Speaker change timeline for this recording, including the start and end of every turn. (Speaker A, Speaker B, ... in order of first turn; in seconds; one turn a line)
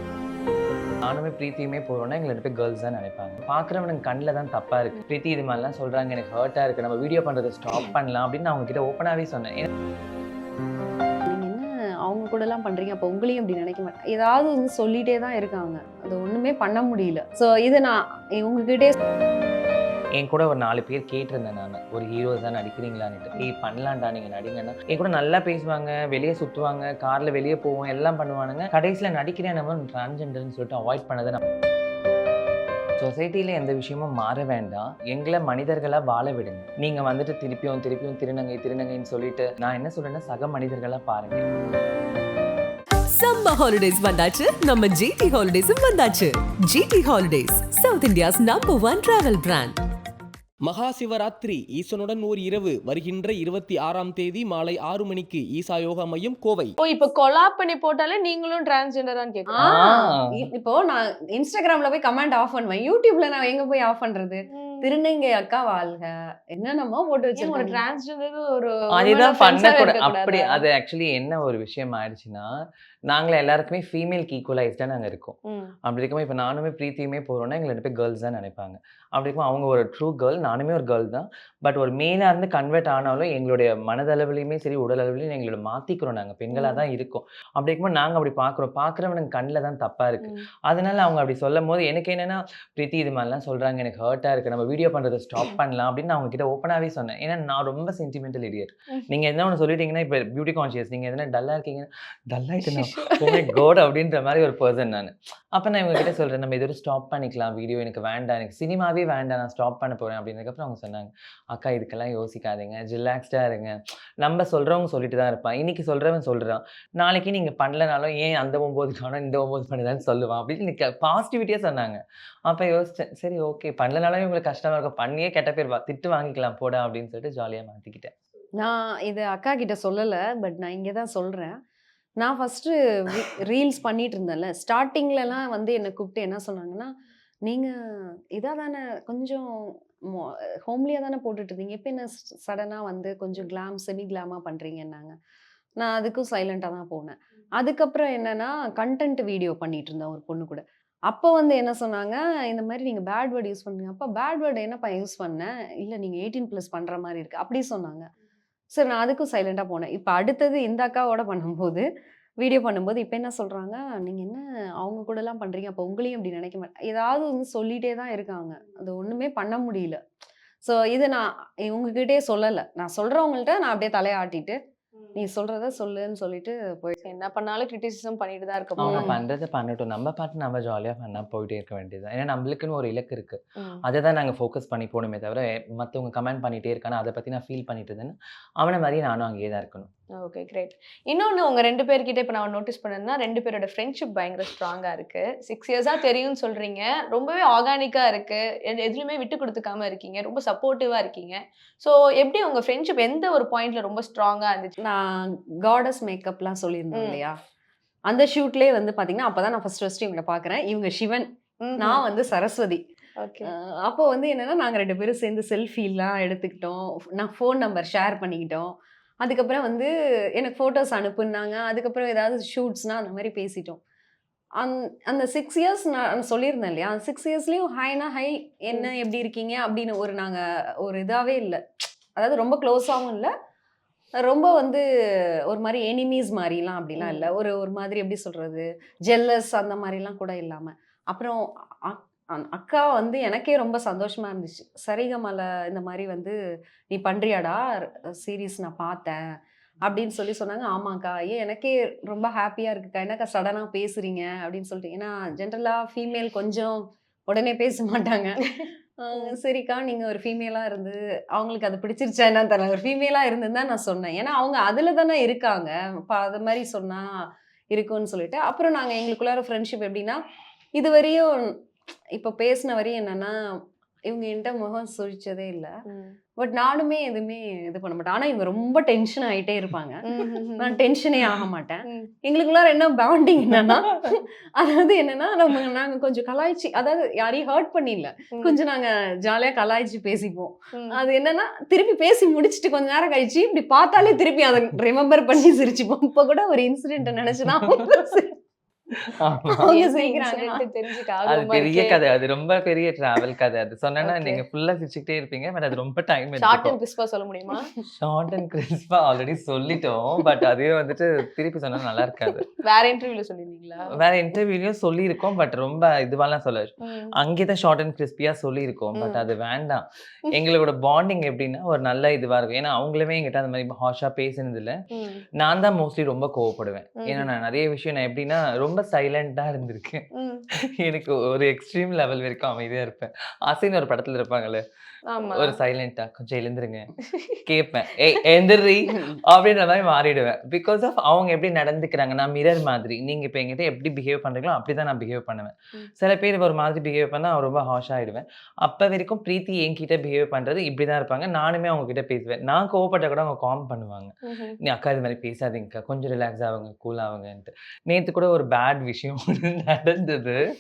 Speaker A: 1.0-9.7
Speaker B: 11.3-19.0
Speaker A: 20.2-31.4
Speaker A: 33.0-41.5
Speaker C: 43.1-49.8
Speaker D: 50.6-56.8
Speaker E: 56.8-59.6
Speaker B: 59.5-67.8
Speaker A: 59.6-60.5
Speaker E: 64.5-64.9
Speaker E: 67.4-70.6
Speaker A: 68.9-72.5
Speaker A: 73.1-128.1
Speaker E: 75.5-75.7
Speaker E: 86.5-86.8
Speaker B: 102.8-103.4
Speaker B: 128.6-131.6
Speaker B: 132.2-136.9
Speaker B: 137.5-137.7
Speaker B: 138.3-145.1
Speaker B: 145.8-158.1
Speaker B: 158.7-161.8
Speaker B: 162.4-170.0
Speaker B: 170.6-174.6
Speaker B: 175.2-177.0
Speaker E: 177.0-179.1
Speaker A: 178.8-189.9
Speaker B: 178.8-179.2
Speaker E: 190.2-204.7
Speaker B: 204.8-207.3
Speaker E: 206.9-207.2
Speaker B: 208.1-212.8
Speaker E: 211.6-212.0
Speaker E: 213.2-213.5
Speaker B: 213.4-223.8
Speaker B: 224.6-231.6
Speaker B: 232.2-233.3
Speaker B: 234.2-234.8
Speaker B: 235.5-246.4
Speaker E: 237.0-237.3
Speaker B: 246.9-249.2
Speaker B: 249.8-270.2
Speaker B: 270.8-271.5
Speaker B: 272.2-273.4
Speaker B: 274.1-275.7
Speaker E: 275.9-276.2
Speaker B: 276.4-280.0
Speaker E: 280.1-280.8
Speaker B: 280.6-298.4
Speaker A: 299.1-299.8
Speaker B: 299.4-300.7
Speaker E: 299.6-302.0
Speaker A: 301.2-306.8
Speaker E: 304.1-304.4
Speaker E: 306.4-307.7
Speaker A: 307.9-312.5
Speaker E: 312.6-313.9
Speaker A: 314.0-319.8
Speaker E: 316.8-317.1
Speaker E: 319.0-319.2
Speaker A: 320.4-324.8
Speaker E: 324.9-325.2
Speaker A: 325.4-330.0
Speaker E: 327.0-327.3
Speaker E: 330.1-330.4
Speaker A: 330.8-334.6
Speaker E: 335.1-335.6
Speaker A: 335.3-336.9
Speaker A: 337.5-360.4
Speaker B: 338.9-339.2
Speaker E: 354.3-354.6